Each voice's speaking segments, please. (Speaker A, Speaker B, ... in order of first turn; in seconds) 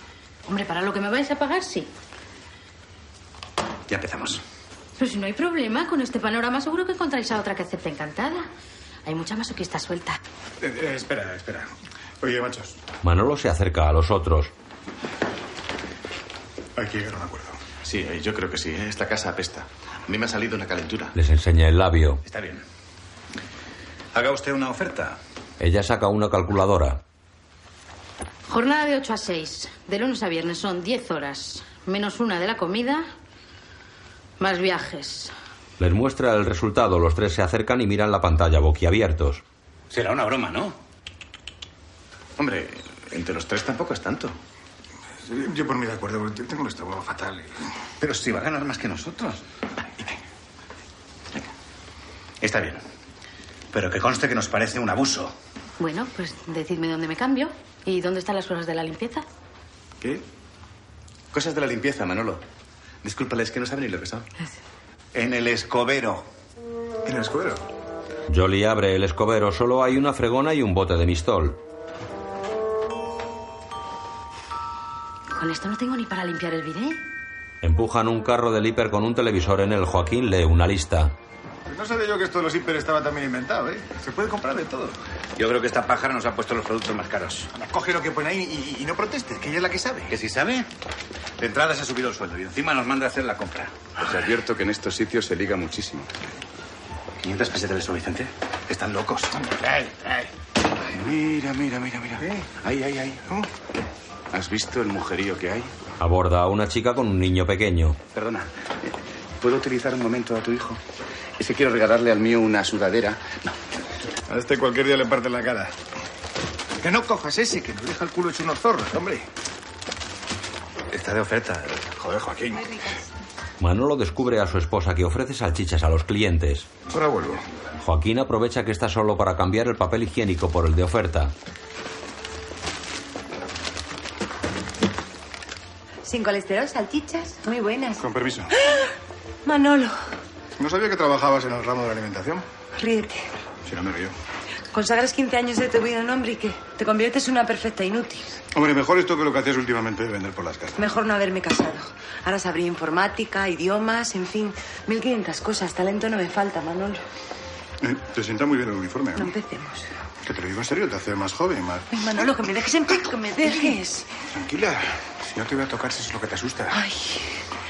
Speaker A: 0.5-1.9, 5.0-8.5, 9.1-10.2, 28.5-33.1, 34.4-35.3, 55.8-59.2, 75.3-77.0
Speaker B: 3.9-4.4, 22.2-22.6, 24.1-25.1, 39.9-40.7, 48.0-49.4, 52.4-52.8, 53.7-55.3, 65.1-66.2, 85.4-87.5, 90.1-90.7, 91.4-93.7, 97.2-98.3, 121.0-121.6
Speaker C: 10.6-11.7, 12.2-12.8, 16.8-17.6, 45.2-47.5, 67.0-67.6, 81.7-84.9, 87.5-90.1, 99.6-100.2, 114.3-115.7, 116.8-119.2, 122.0-122.7, 126.9-127.4, 138.0-138.5, 140.6-142.4, 143.6-144.1, 148.5-150.7, 157.8-159.3, 160.2-161.8, 164.3-166.8
Speaker D: 13.0-14.5, 21.1-22.2, 25.6-27.0, 35.8-39.4, 68.3-71.6, 77.6-81.1, 106.0-108.0, 123.6-126.7, 127.8-131.3
Speaker E: 17.8-21.1, 42.4-44.3, 61.3-62.4, 63.0-64.3, 94.0-96.1, 98.7-99.3, 100.9-103.3, 104.3-105.7, 108.1-108.5, 109.4-110.8, 111.4-113.5, 121.3-121.8
Speaker F: 136.0-138.0, 139.4-139.9, 142.7-143.2, 144.7-148.3, 150.8-157.0, 159.2-159.8, 161.9-164.1, 166.7-167.2